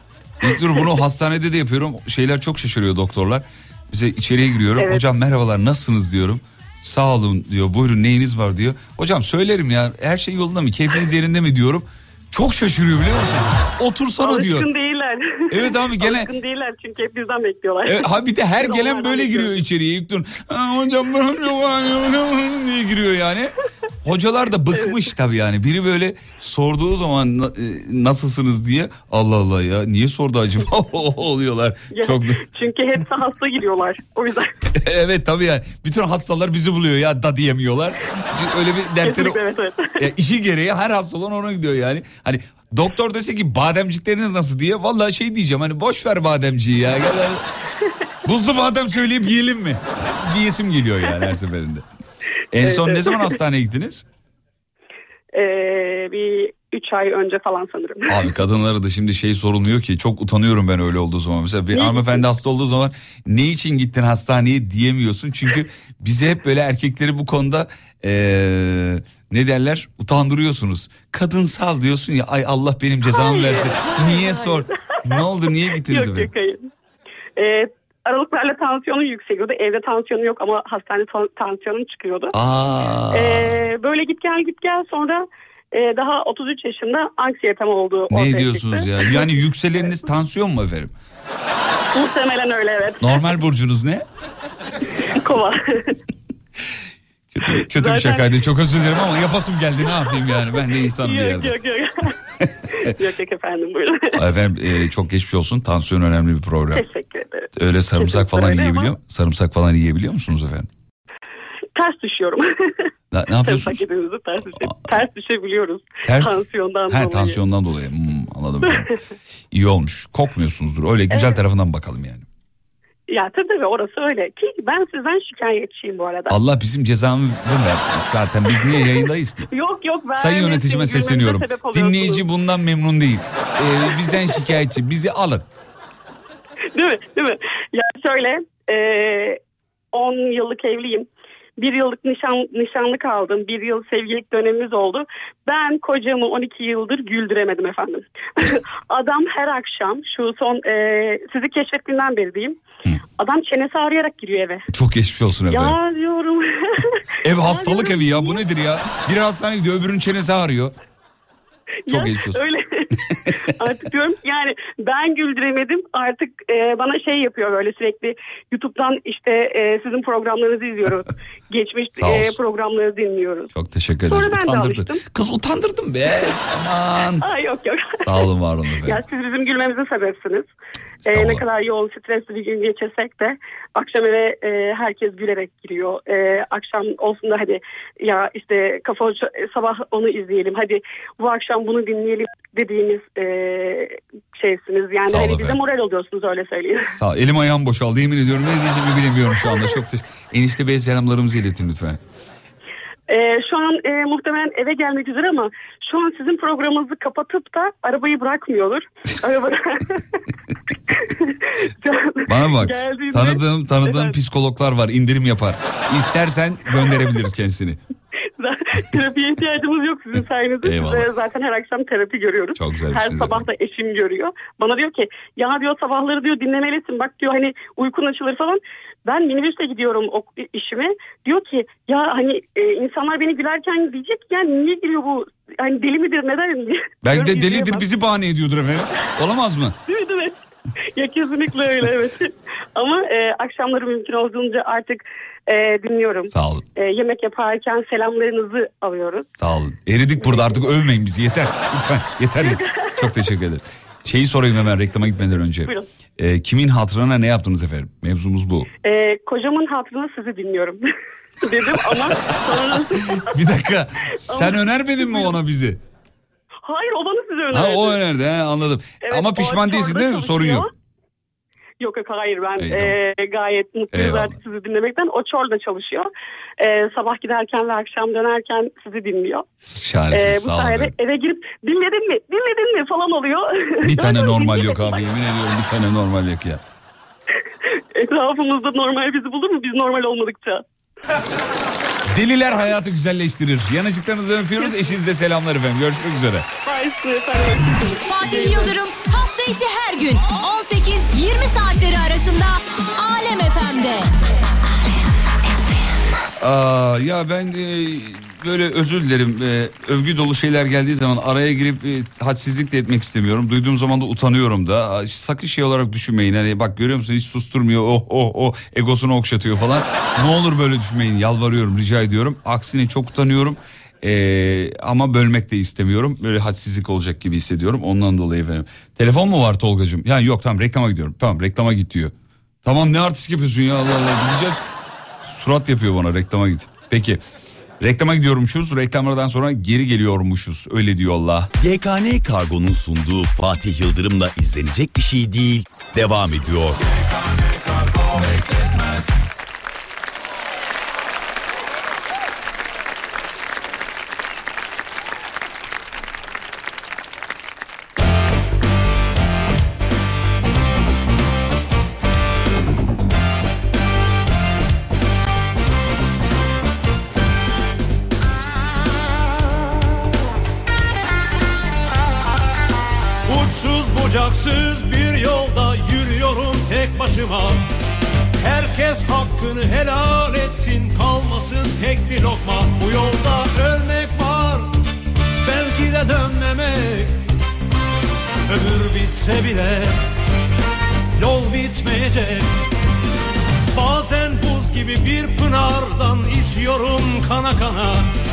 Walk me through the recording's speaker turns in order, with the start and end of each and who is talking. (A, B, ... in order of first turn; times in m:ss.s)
0:00.4-0:14.7 A
0:14.2-0:18.1 B
0:15.5-0:16.3 A
0:17.9-0:23.5 A
0:18.6-0:19.6 B
0:24.0-0:32.4 A
0:31.9-0:34.5 B
0:34.7-0:39.4 A
0:39.0-0:40.0 B
0:40.0-0:47.4 A
0:48.2-0:51.9 A
0:52.5-0:54.0 A
0:52.6-0:53.4 B
0:55.3-0:58.3 B
0:58.1-1:16.3 A
1:01.7-1:02.2 B
1:13.1-1:15.2 B
1:15.9-1:16.7 B
1:17.4-1:22.3 B
1:22.3-1:23.7 A
1:23.1-1:29.9 B
1:28.1-1:30.9 A
1:32.0-1:33.2 B
1:33.0-1:34.0 A
1:35.2-1:36.0 B
1:37.3-1:41.6 A
1:37.5-1:38.3 B
1:39.9-1:42.1 B
1:42.8-1:44.2 B
1:44.2-1:46.9 A
1:46.7-1:48.9 B
1:47.6-1:50.7 A
1:51.8-1:52.5 B
1:53.1-1:53.8 A
1:53.4-1:57.4 B
1:54.5-1:54.9 A
1:56.0-1:58.9 A
1:59.5-2:02.3 A
2:01.1-2:01.4 B
2:03.1-2:06.4 B
2:06.3-2:09.5 A
2:08.5-2:12.2 B
2:10.1-2:15.5 A
2:13.9-2:14.4 B
2:16.8-2:19.4 B
2:19.9-2:32.6 B
2:33.2-2:34.6 B
2:34.7-2:35.8 A
2:35.5-2:38.4 B
2:37.2-2:40.8 A
2:41.9-2:42.9 B
2:41.9-2:42.4 A
2:43.5-2:53.5 B
2:52.0-2:52.4 A
2:53.5-2:57.3 A
2:54.1-2:55.0 B
2:57.2-2:58.2 B
2:58.0-2:59.0 A
2:58.8-3:00.5 B
3:01.1-3:01.5 A
3:01.1-3:16.9 B
3:15.1-3:15.6 A
3:17.0-3:22.0 A
3:23.1-3:30.0 B
3:30.9-3:34.2 B
3:32.3-3:37.8 A
3:38.4-3:57.9 B
3:40.6-3:41.1 A
3:42.6-3:43.5 A
3:57.0-3:59.8 A
3:59.9-4:00.4 B
4:01.0-4:09.3 B
4:06.3-4:06.6 A
4:09.4-4:18.7 A
4:10.2-4:10.6 B
4:12.4-4:12.9 B
4:18.8-4:20.8 B
4:21.4-4:23.4 B
4:21.7-4:25.8 A
4:24.3-4:25.4 B
4:26.7-4:28.0 B
4:27.5-4:30.7 A
4:29.0-4:30.7 B
4:31.8-4:36.1 B
4:32.6-4:33.0 A
4:33.9-4:34.4 A
4:36.6-4:39.4 B
4:39.6-4:41.0 A
4:40.1-4:45.0 B
4:43.8-4:46.6 A
4:48.0-4:50.6 B
4:52.1-4:56.5 A
4:54.6-4:54.9 B
4:56.7-4:58.7 B
4:58.1-5:04.1 C
5:06.4-5:32.1 A
5:32.6-5:34.6 A
5:35.2-5:37.2 A
5:37.8-5:41.5 A
5:41.6-5:46.9 D
6:13.3-6:17.6 E
6:18.4-6:24.7 E
6:25.4-6:27.2 E
6:28.5-6:30.0 E
6:31.2-6:32.5 E
6:33.7-6:38.1 E